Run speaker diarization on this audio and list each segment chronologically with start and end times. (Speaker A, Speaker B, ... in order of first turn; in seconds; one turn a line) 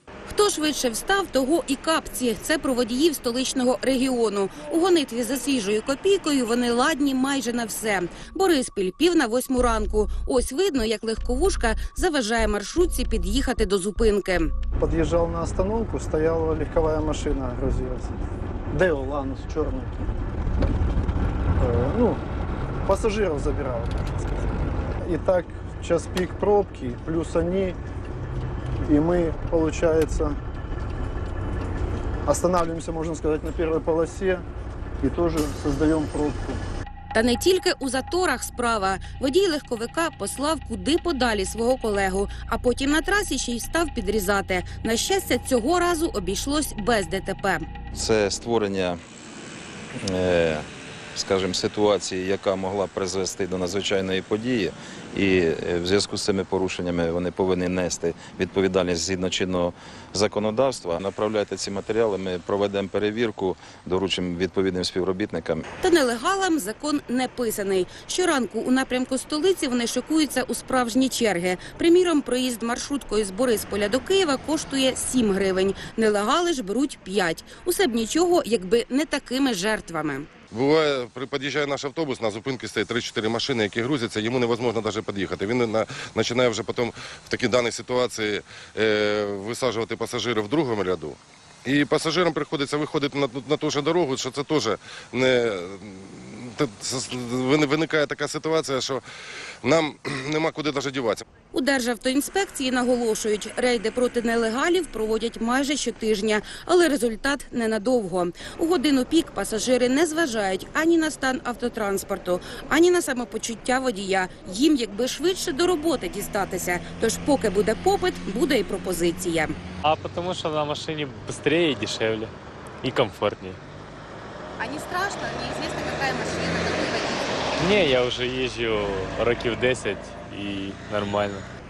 Speaker A: 0.3-14.5
Speaker B: 14.8-18.1
Speaker B: 18.7-20.0
Speaker B: 21.6-22.2
Speaker B: 22.9-24.5
Speaker B: 25.0-27.8
Speaker B: 28.9-30.4
Speaker B: 32.2-34.4
Speaker B: 35.0-36.6
Speaker A: 37.1-47.6
Speaker C: 47.9-49.0
Speaker C: 50.0-65.6
Speaker A: 65.8-80.3
Speaker D: 80.5-99.0
Speaker D: 99.6-101.2
Speaker A: 101.5-119.5
Speaker E: 119.8-123.6
Speaker A: 124.6-127.4
Speaker E: 127.6-131.4